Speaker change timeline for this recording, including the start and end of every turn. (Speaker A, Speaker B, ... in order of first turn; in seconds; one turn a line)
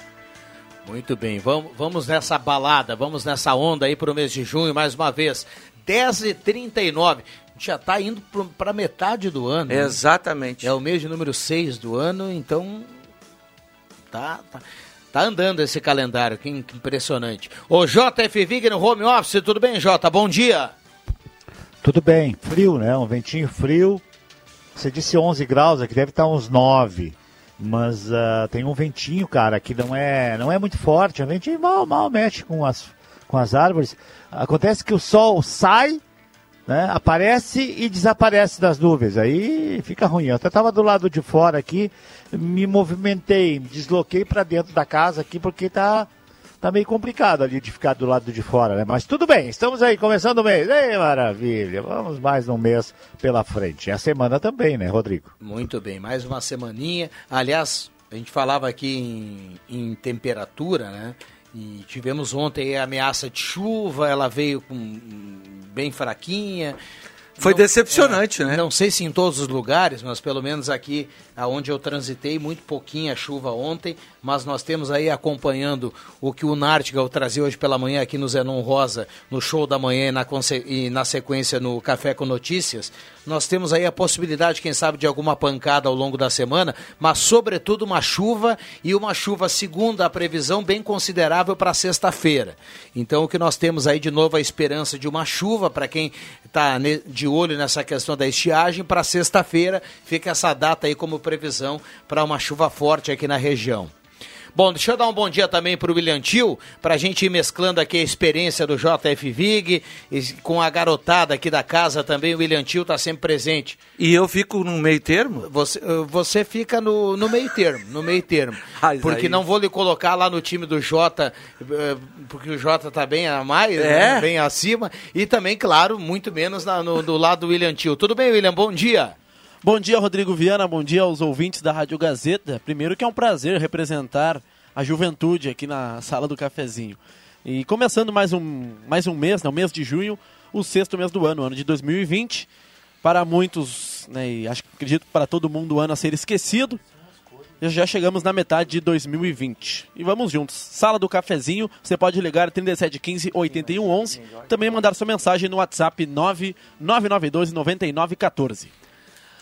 Speaker A: 0.8-10.0
Speaker B: 9.7-10.7
Speaker A: 10.6-12.9
Speaker A: 14.1-20.7
Speaker C: 21.8-24.0
Speaker C: 24.7-36.0
Speaker C: 36.7-46.1
Speaker C: 46.6-55.3
Speaker A: 55.4-66.8
Speaker B: 67.4-68.6
Speaker A: 67.4-103.9
Speaker A: 104.5-113.8
Speaker B: 114.0-115.5
Speaker A: 115.4-129.1
Speaker B: 118.7-119.4
Speaker B: 123.8-124.3
Speaker D: 129.6-142.5
Speaker D: 143.0-146.8
Speaker D: 147.6-158.7